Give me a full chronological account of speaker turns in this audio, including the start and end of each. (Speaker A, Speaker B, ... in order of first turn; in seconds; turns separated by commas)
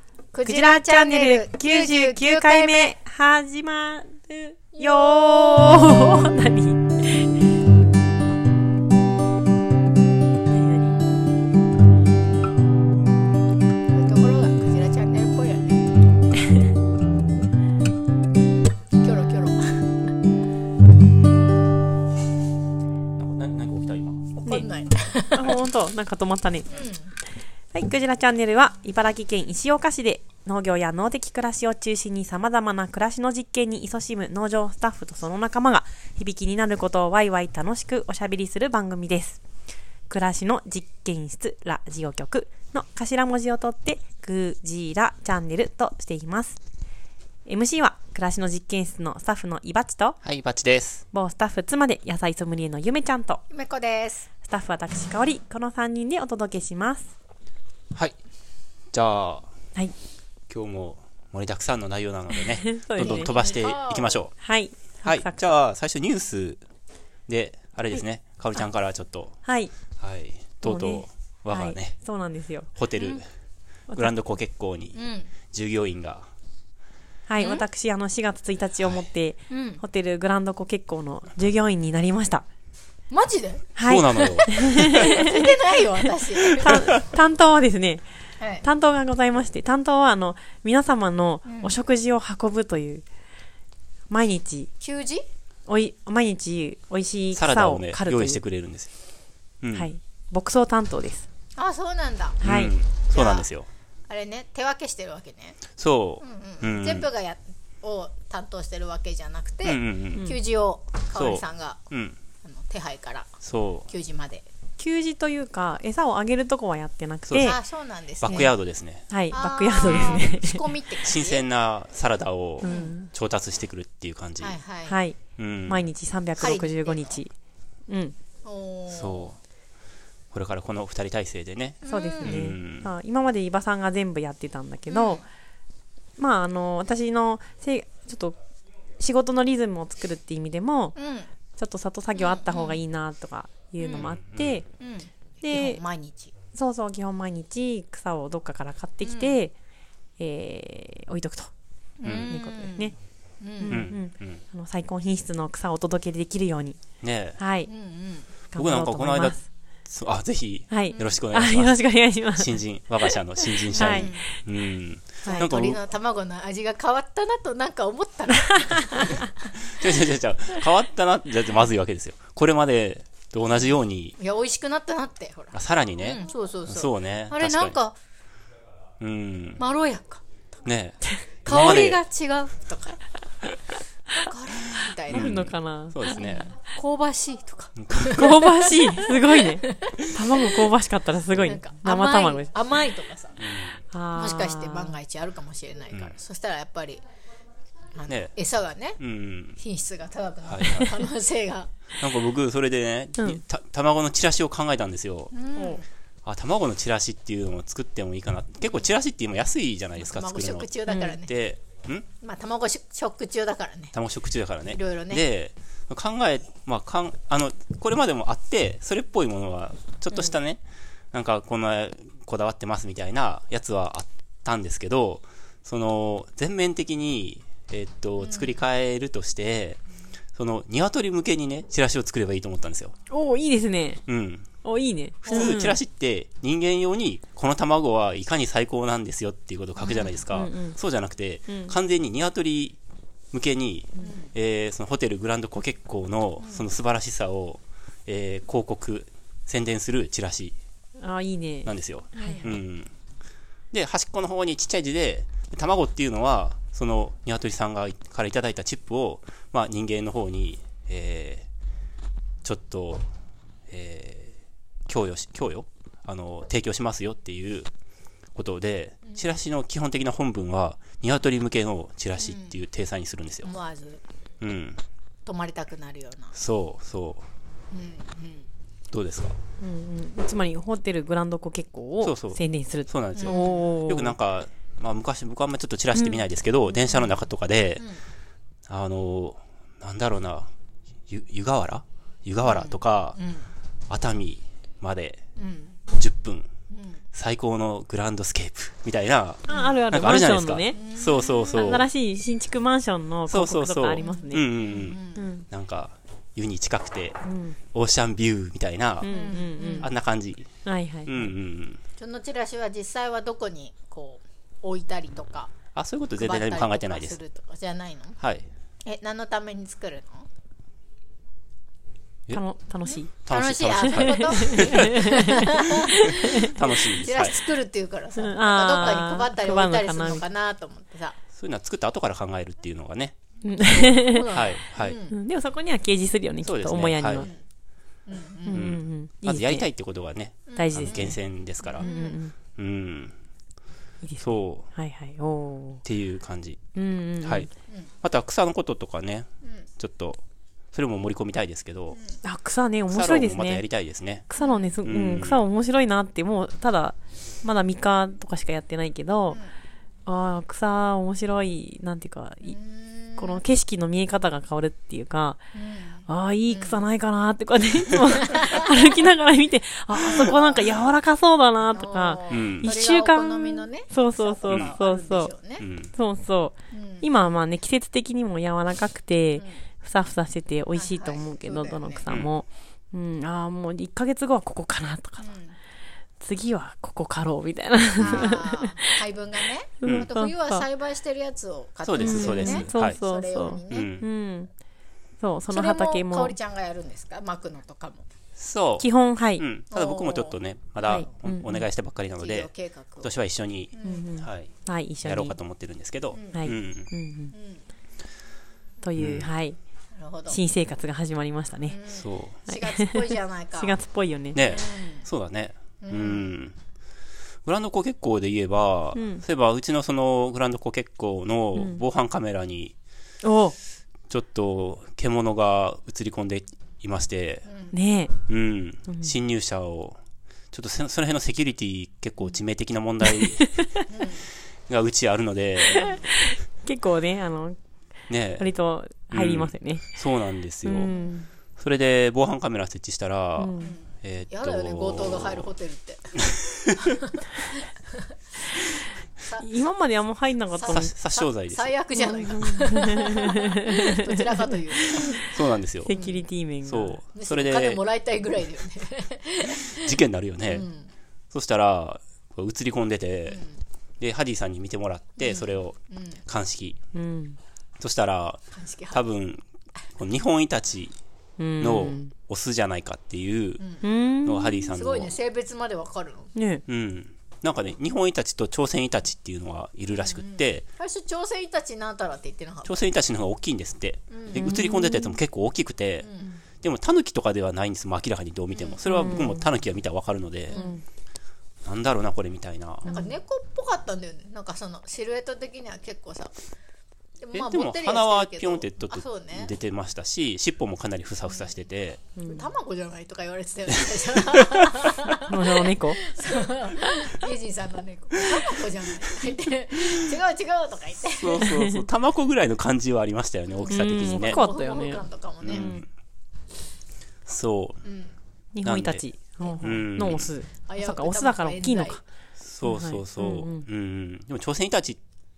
Speaker A: 0.3-3.0, Speaker B: 0.4-7.3, Speaker A: 4.7-6.0, Speaker B: 10.5-10.9, Speaker A: 13.9-15.8, Speaker A: 19.0-19.8, Speaker C: 23.2-24.3, Speaker A: 24.4-25.6, Speaker B: 25.3-26.9, Speaker A: 26.7-27.1, Speaker B: 27.7-39.4, Speaker B: 40.1-46.6, Speaker B: 47.5-50.2, Speaker C: 50.2-51.0, Speaker B: 51.1-53.4, Speaker A: 53.5-54.3, Speaker B: 54.4-57.1, Speaker C: 58.9-59.5, Speaker C: 60.5-64.3, Speaker B: 62.4-63.3, Speaker A: 63.0-64.3, Speaker B: 64.4-65.5, Speaker C: 65.0-66.6, Speaker C: 67.3-69.3, Speaker B: 69.4-69.7, Speaker C: 70.0-72.0, Speaker B: 70.6-72.7, Speaker C: 72.7-73.2, Speaker A: 73.0-73.2, Speaker C: 73.9-76.3, Speaker A: 74.9-75.3, Speaker B: 77.3-82.5, Speaker A: 79.5-79.8, Speaker A: 83.1-86.9, Speaker B: 83.8-85.5, Speaker C: 83.8-85.0, Speaker B: 86.5-88.0, Speaker A: 88.4-88.7, Speaker B: 88.6-93.0, Speaker A: 91.4-91.8, Speaker B: 94.1-94.7, Speaker A: 94.8-95.2, Speaker B: 95.7-98.4, Speaker C: 97.3-98.9, Speaker C: 99.6-99.9, Speaker B: 99.7-101.3, Speaker A: 101.6-102.4, Speaker C: 102.4-103.7, Speaker B: 102.4-102.7, Speaker A: 103.1-103.5, Speaker A: 104.1-105.6, Speaker C: 105.7-107.1, Speaker A: 106.2-111.8, Speaker C: 109.6-110.3, Speaker C: 111.1-112.2, Speaker A: 112.4-113.3, Speaker C: 113.4-113.9, Speaker A: 113.9-114.5, Speaker B: 114.8-117.6, Speaker C: 117.3-117.6, Speaker A: 117.3-118.5, Speaker C: 118.2-119.1, Speaker B: 119.1-120.6, Speaker A: 119.3-121.5, Speaker C: 119.8-120.3, Speaker C: 121.0-124.6, Speaker B: 122.6-123.1, Speaker A: 122.6-123.0, Speaker A: 124.4-125.0, Speaker B: 124.8-127.3, Speaker C: 125.4-125.9, Speaker A: 126.4-127.2, Speaker B: 127.9-128.2, Speaker A: 128.4-129.3, Speaker C: 128.9-129.4, Speaker C: 130.3-132.9, Speaker A: 131.8-132.4, Speaker B: 131.9-135.2, Speaker A: 134.9-135.2, Speaker B: 136.2-138.4, Speaker B: 139.0-140.9, Speaker A: 140.9-141.3, Speaker B: 141.5-144.6, Speaker A: 142.1-142.8, Speaker A: 143.8-144.1, Speaker C: 143.9-144.6, Speaker A: 144.8-146.3, Speaker B: 145.4-145.8, Speaker B: 146.5-149.5, Speaker A: 149.0-149.4, Speaker B: 150.2-151.5, Speaker A: 152.0-153.8, Speaker C: 152.0-152.3, Speaker B: 152.1-152.9, Speaker B: 153.6-156.8, Speaker C: 153.7-154.4, Speaker C: 157.0-157.4, Speaker B: 157.4-157.7, Speaker A: 157.7-158.3, Speaker B: 158.5-159.4, Speaker C: 158.6-165.8, Speaker B: 160.7-164.1, Speaker A: 160.9-161.2, Speaker A: 163.7-164.3, Speaker A: 165.2-169.3, Speaker C: 169.5-174.2, Speaker A: 174.2-178.0, Speaker C: 175.5-177.8, Speaker C: 179.0-179.6, Speaker A: 179.6-180.2, Speaker C: 180.6-182.0, Speaker A: 181.4-183.0, Speaker A: 184.1-185.3, Speaker B: 185.1-186.4, Speaker C: 185.1-186.5, Speaker A: 186.1-190.7, Speaker C: 187.8-188.3, Speaker B: 188.1-192.5, Speaker A: 191.3-193.4, Speaker C: 193.4-193.8, Speaker B: 193.9-195.0, Speaker A: 194.1-197.0, Speaker A: 197.9-199.0, Speaker C: 198.1-198.3, Speaker C: 199.0-199.6, Speaker A: 199.6-201.7, Speaker C: 200.4-200.9, Speaker C: 202.0-205.3, Speaker A: 205.3-205.8, Speaker C: 206.2-210.7, Speaker A: 210.0-211.3, Speaker B: 210.9-211.2, Speaker C: 211.2-212.1, Speaker A: 212.2-213.9, Speaker C: 213.9-229.8, Speaker A: 214.7-215.2, Speaker A: 228.2-228.6, Speaker C: 230.3-232.9, Speaker B: 233.1-234.0, Speaker C: 234.1-234.5, Speaker B: 234.6-235.8, Speaker A: 235.2-235.6, Speaker C: 235.2-242.8, Speaker A: 239.8-240.2, Speaker B: 240.3-240.8, Speaker B: 241.5-241.7, Speaker C: 243.3-250.5, Speaker A: 244.0-244.3, Speaker A: 246.4-246.7, Speaker B: 251.0-252.6, Speaker C: 251.6-252.9, Speaker A: 252.2-252.4, Speaker C: 253.7-261.5, Speaker C: 262.4-263.1, Speaker C: 263.7-264.3, Speaker C: 264.9-267.7, Speaker C: 268.3-273.5, Speaker A: 272.2-272.6, Speaker A: 273.4-274.0, Speaker C: 274.4-274.8, Speaker A: 275.2-276.3, Speaker C: 276.3-277.3, Speaker A: 277.7-278.5, Speaker C: 278.9-279.4, Speaker B: 279.6-284.1, Speaker C: 282.0-287.9, Speaker A: 283.2-283.7, Speaker B: 285.9-286.2, Speaker A: 286.7-287.1, Speaker C: 288.7-290.5, Speaker C: 291.1-293.2, Speaker A: 292.4-293.5, Speaker C: 293.9-295.2, Speaker A: 295.4-295.8, Speaker C: 295.9-296.5, Speaker A: 296.7-297.0, Speaker C: 297.1-301.9, Speaker A: 299.5-299.7, Speaker B: 299.5-300.8, Speaker A: 300.7-301.7, Speaker B: 301.5-304.5, Speaker C: 303.3-307.2, Speaker A: 304.0-305.3, Speaker B: 305.1-305.4, Speaker B: 307.2-307.6, Speaker C: 307.7-309.1, Speaker B: 309.0-309.9, Speaker A: 309.1-309.9, Speaker C: 309.8-310.5, Speaker B: 310.6-311.3, Speaker C: 311.0-311.8, Speaker A: 312.0-315.5, Speaker C: 315.7-317.2, Speaker A: 316.2-318.2, Speaker C: 318.2-318.5, Speaker A: 318.9-320.2, Speaker B: 322.3-323.1, Speaker C: 323.2-325.1, Speaker A: 323.3-331.2, Speaker B: 323.7-326.6, Speaker C: 325.8-327.4, Speaker B: 328.2-330.2, Speaker C: 331.3-333.1, Speaker B: 333.4-334.2, Speaker A: 333.6-335.2, Speaker C: 334.3-335.0, Speaker B: 335.1-337.3, Speaker C: 336.4-337.3, Speaker A: 338.1-338.6, Speaker B: 338.4-339.7, Speaker C: 338.5-341.9, Speaker A: 340.5-342.2, Speaker B: 340.6-341.2, Speaker B: 341.8-342.3, Speaker C: 342.6-343.1, Speaker B: 344.0-345.8, Speaker C: 344.2-344.7, Speaker C: 345.8-346.6, Speaker B: 346.7-347.5, Speaker C: 347.2-347.5, Speaker C: 348.0-350.2, Speaker C: 350.7-352.0, Speaker A: 351.9-352.2, Speaker B: 352.2-353.6, Speaker C: 352.9-354.2, Speaker B: 354.3-359.4, Speaker A: 354.4-354.7, Speaker C: 354.8-355.4, Speaker B: 360.1-362.6, Speaker A: 362.4-363.4, Speaker B: 363.2-365.4, Speaker A: 365.5-366.8, Speaker B: 366.1-375.3, Speaker A: 370.1-370.8, Speaker A: 371.7-375.6, Speaker C: 372.3-372.7, Speaker C: 374.5-374.7, Speaker C: 375.6-375.9, Speaker B: 375.9-385.3, Speaker A: 376.7-377.1, Speaker A: 380.7-382.1, Speaker A: 385.2-385.6, Speaker B: 386.2-388.9, Speaker A: 388.0-393.9, Speaker C: 388.0-388.3, Speaker B: 389.8-390.6, Speaker C: 391.8-393.0, Speaker B: 392.0-394.5, Speaker C: 393.7-394.1, Speaker B: 395.2-396.4, Speaker A: 395.5-398.1, Speaker C: 398.4-402.5, Speaker B: 398.8-399.4, Speaker A: 399.7-400.4, Speaker B: 400.8-401.6, Speaker A: 402.2-403.2, Speaker C: 403.0-404.5, Speaker A: 403.7-404.1, Speaker B: 403.8-405.4, Speaker C: 405.0-406.9, Speaker A: 406.1-406.6, Speaker B: 406.3-407.3, Speaker A: 407.3-407.6, Speaker B: 408.8-409.6, Speaker C: 408.9-409.3, Speaker A: 409.9-410.4, Speaker B: 410.3-411.8, Speaker A: 411.7-413.8, Speaker C: 411.9-412.4, Speaker B: 412.5-414.4, Speaker C: 414.3-416.6, Speaker A: 414.4-415.1, Speaker A: 415.8-416.3, Speaker C: 417.4-422.8, Speaker B: 418.9-419.2, Speaker B: 421.5-421.8, Speaker B: 423.2-423.6, Speaker C: 424.1-427.5, Speaker A: 427.5-427.7, Speaker B: 427.7-428.1, Speaker C: 428.3-430.0, Speaker B: 428.9-429.1, Speaker C: 430.5-433.4, Speaker B: 433.1-433.8, Speaker A: 433.9-434.2, Speaker C: 434.7-435.9, Speaker B: 435.7-437.6, Speaker C: 438.1-438.5, Speaker B: 438.4-440.0, Speaker C: 439.1-440.9, Speaker B: 440.6-441.3, Speaker A: 440.9-441.1, Speaker C: 441.6-445.5, Speaker B: 443.4-443.8, Speaker A: 443.6-446.3, Speaker C: 446.3-446.8, Speaker A: 446.8-447.2, Speaker B: 449.4-450.9, Speaker A: 450.5-455.2, Speaker C: 450.7-451.7, Speaker B: 451.9-455.3, Speaker C: 455.2-455.9, Speaker B: 455.9-457.0, Speaker A: 455.9-456.2, Speaker C: 456.6-457.8, Speaker A: 457.1-460.9, Speaker C: 459.7-460.7, Speaker C: 461.3-463.4, Speaker A: 463.3-463.6, Speaker C: 464.0-466.8, Speaker A: 465.2-466.2, Speaker B: 466.9-467.4, Speaker C: 467.8-469.4, Speaker A: 468.5-469.0, Speaker C: 470.0-471.0, Speaker B: 471.4-472.1, Speaker C: 471.6-473.6, Speaker A: 473.6-473.9, Speaker B: 473.8-474.7, Speaker C: 474.2-475.1, Speaker A: 474.7-476.3, Speaker B: 476.3-476.6, Speaker C: 476.7-480.7, Speaker A: 479.9-482.8, Speaker C: 482.6-486.1, Speaker A: 484.1-484.5, Speaker B: 484.4-485.2, Speaker A: 486.0-486.4, Speaker C: 486.6-490.6, Speaker A: 488.5-488.8, Speaker B: 488.8-489.5, Speaker A: 490.5-490.8, Speaker B: 490.5-490.8, Speaker C: 491.6-492.9, Speaker B: 492.8-493.2, Speaker A: 492.9-496.3, Speaker A: 497.2-499.5, Speaker C: 497.3-502.1, Speaker A: 501.2-501.6, Speaker B: 502.2-502.5, Speaker A: 502.2-511.6, Speaker C: 504.3-504.7, Speaker B: 505.2-506.1, Speaker C: 511.1-514.4, Speaker A: 513.5-515.7, Speaker B: 513.7-515.8, Speaker C: 515.4-515.8, Speaker C: 517.2-517.8, Speaker A: 517.8-518.1, Speaker B: 518.5-522.0, Speaker C: 518.6-519.0, Speaker C: 519.6-520.3, Speaker A: 520.6-522.0, Speaker C: 522.4-525.0, Speaker B: 522.6-523.7